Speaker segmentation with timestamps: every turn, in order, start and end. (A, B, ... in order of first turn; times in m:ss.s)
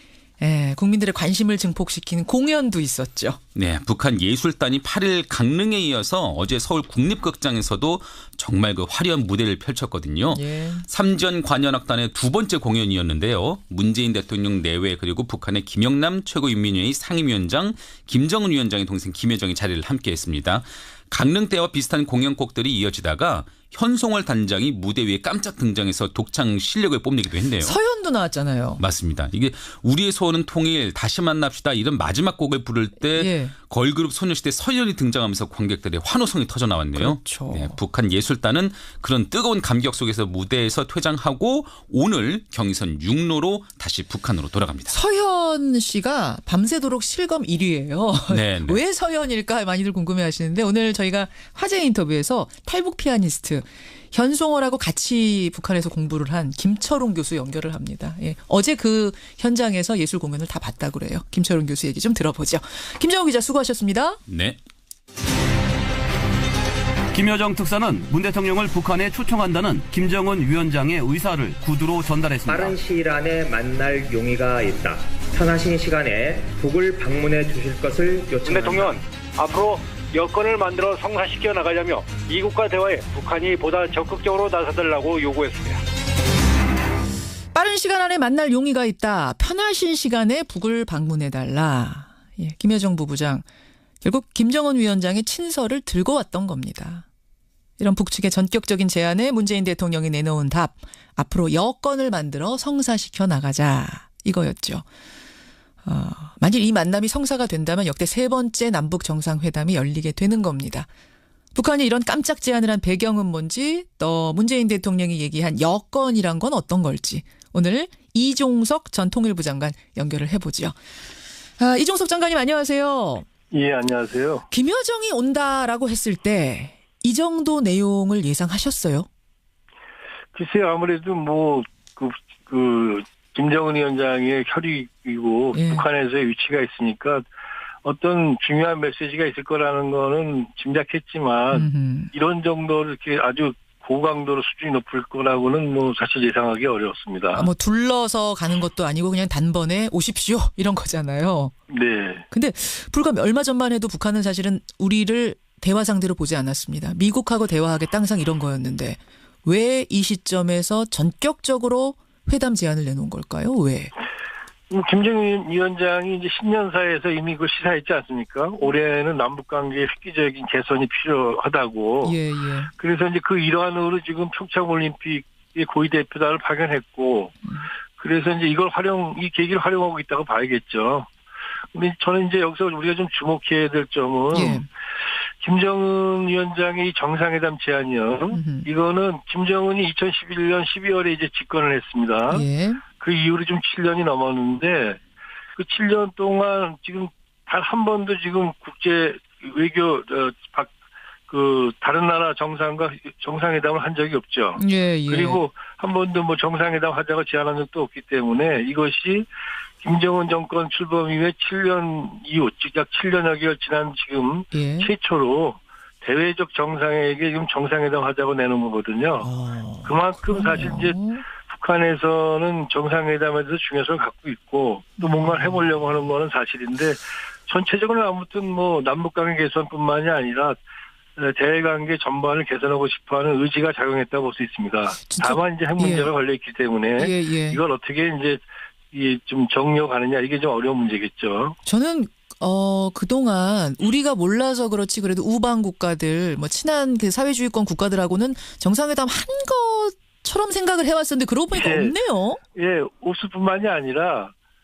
0:00.4-0:03.4 A
0:03.5-0:27.8 B
0:10.3-0:10.9 A
0:27.6-0:28.8 A
0:28.8-0:44.9 B
0:33.1-0:33.5 A
0:36.9-0:37.8 A
0:44.9-1:04.2 A
0:48.3-0:48.8 B
1:04.3-1:04.6 B
1:07.1-1:12.8 C
1:12.4-1:19.0 D
1:18.4-1:25.8 E
1:27.5-1:33.4 A
1:34.0-1:37.0 A
1:37.8-1:44.8 A
1:45.8-1:50.9 A
1:51.5-2:00.7 A
2:01.6-2:03.2 A
2:03.5-2:04.5 F
2:04.5-2:09.1 A
2:10.3-2:17.2 F
2:15.5-2:15.8 A
2:17.8-2:27.5 F
2:21.5-2:22.1 A
2:27.3-2:31.5 A
2:31.7-2:32.2 F
2:32.3-2:43.9 A
2:44.7-2:52.2 F
2:52.0-2:52.7 A
2:52.8-2:57.4 F
2:58.0-3:01.1 F
3:01.7-3:04.6 F
3:04.3-3:04.6 A
3:05.4-3:12.4 F
3:08.3-3:08.7 A
3:12.3-3:12.8 A
3:13.0-3:15.0 F
3:15.6-3:20.7 F
3:21.3-3:29.2 F
3:24.6-3:25.4 A
3:29.8-3:39.3 F
3:34.5-3:34.9 A
3:39.2-3:41.2 A
3:39.8-3:50.6 F
3:45.0-3:45.6 A
3:51.2-4:01.6 F
3:55.0-3:56.1 A
3:57.0-3:57.6 A
4:01.6-4:12.4 A
4:11.5-4:11.9 F
4:12.6-4:14.3 F